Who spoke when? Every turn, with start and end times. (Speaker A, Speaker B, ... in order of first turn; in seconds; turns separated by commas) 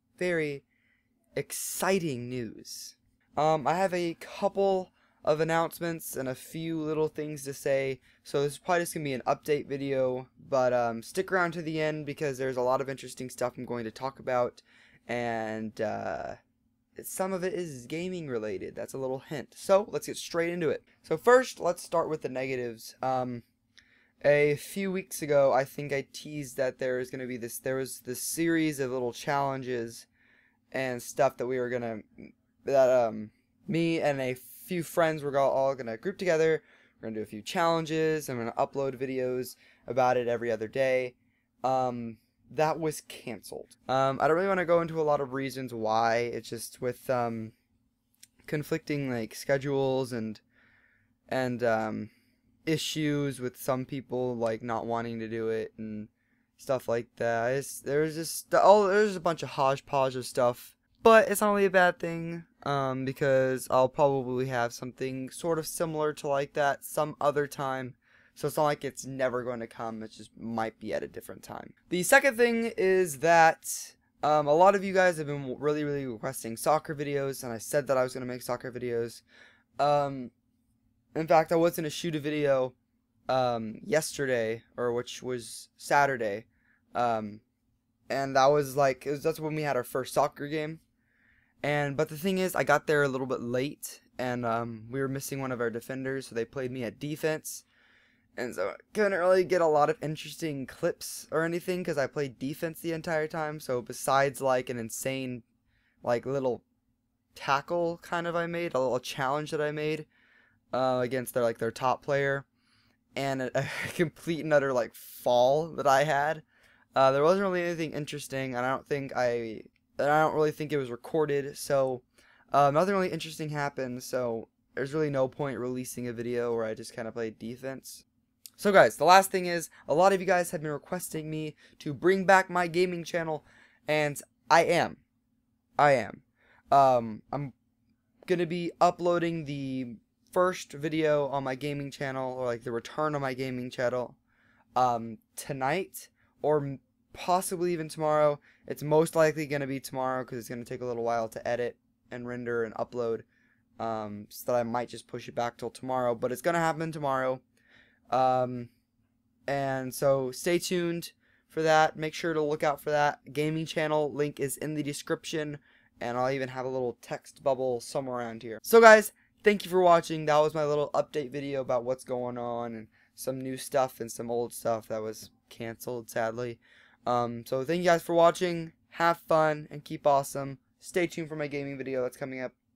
Speaker A: 0.2-0.6, Speaker A: 1.3-16.4, Speaker A: 16.9-23.4, Speaker A: 24.2-30.1, Speaker A: 30.7-47.5, Speaker A: 48.4-50.4, Speaker A: 51.3-52.1, Speaker A: 52.6-79.2, Speaker A: 79.8-80.3, Speaker A: 81.1-82.7, Speaker A: 83.3-87.4, Speaker A: 88.1-90.8, Speaker A: 91.6-97.6, Speaker A: 98.4-105.4, Speaker A: 106.0-106.6, Speaker A: 107.3-110.1, Speaker A: 110.7-112.5, Speaker A: 113.1-116.4, Speaker A: 116.9-128.0, Speaker A: 128.6-135.0, Speaker A: 135.8-137.5, Speaker A: 138.3-144.2, Speaker A: 144.8-153.2, Speaker A: 153.8-157.4, Speaker A: 158.1-158.7, Speaker A: 159.5-182.5